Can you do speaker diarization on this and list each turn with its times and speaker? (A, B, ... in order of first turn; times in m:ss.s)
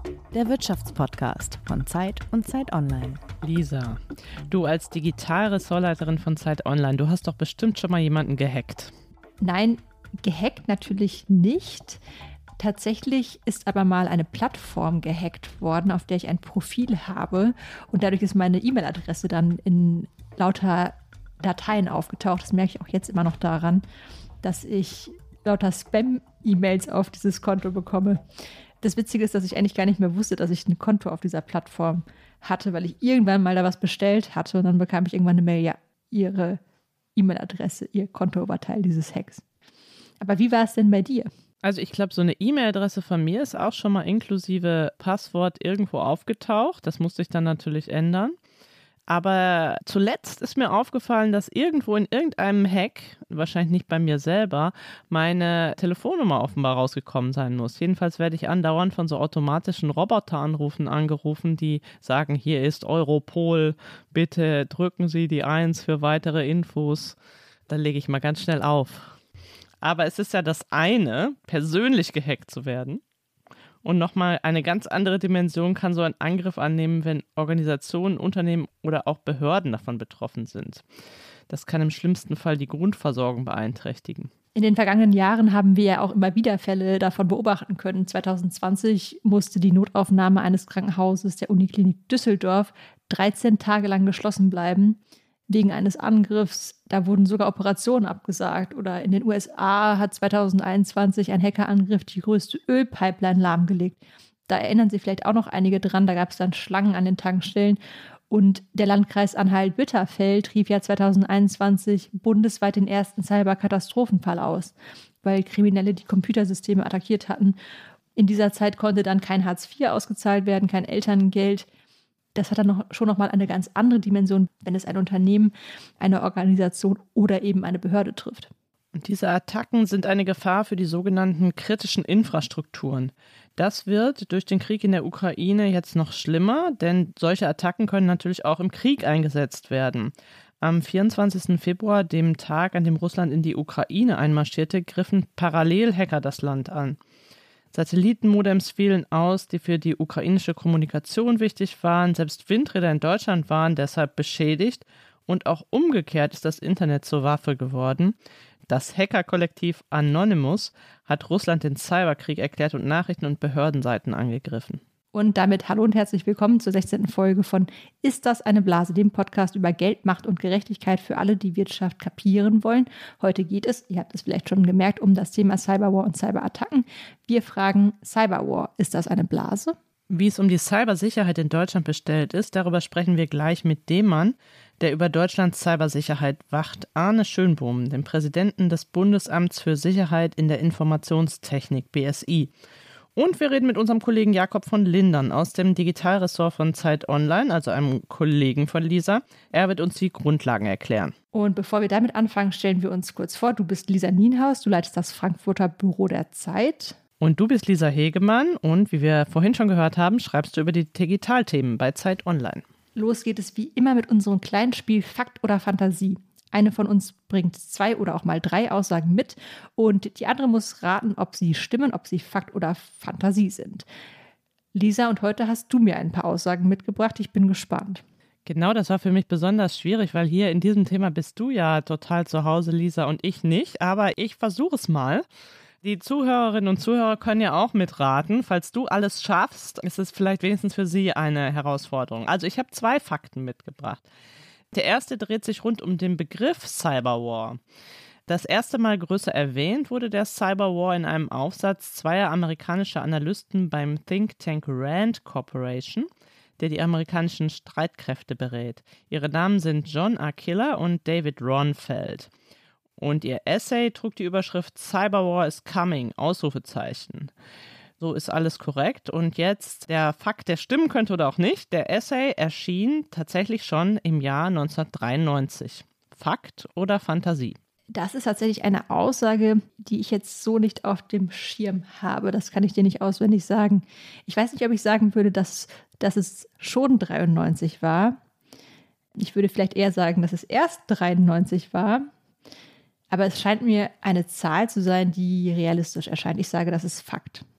0:00.3-0:03.2 A
0:03.4-0:08.9 B
0:09.4-0:12.0 C
0:12.6-0:23.8 C
0:24.4-0:28.2 C
0:28.8-0:36.6 C
0:37.2-0:39.4 C
0:40.2-0:41.3 C
0:41.6-0:48.4 B
0:49.1-1:07.2 B
1:07.7-1:09.2 B
1:09.8-1:13.0 B
1:13.8-1:20.8 B
1:21.5-1:24.3 B
1:24.6-1:47.8 C
1:48.3-1:57.6 C
1:58.2-2:01.7 C
2:02.4-2:08.5 C
2:09.0-2:27.0 B
2:27.7-2:38.2 B
2:38.7-2:44.8 B
2:45.1-2:59.8 C
3:00.1-3:12.5 B
3:13.2-3:21.1 B
3:21.3-3:27.0 C
3:27.2-3:32.6 B
3:33.0-3:43.8 C
3:44.7-3:48.0 C
3:48.4-3:55.2 B
3:55.8-4:04.0 B
4:04.7-4:07.6 B
4:08.3-4:22.3 B
4:23.0-4:27.3 B
4:28.0-4:37.6 B
4:37.9-4:48.2 C
4:49.2-4:52.1 C
4:53.1-4:57.4 C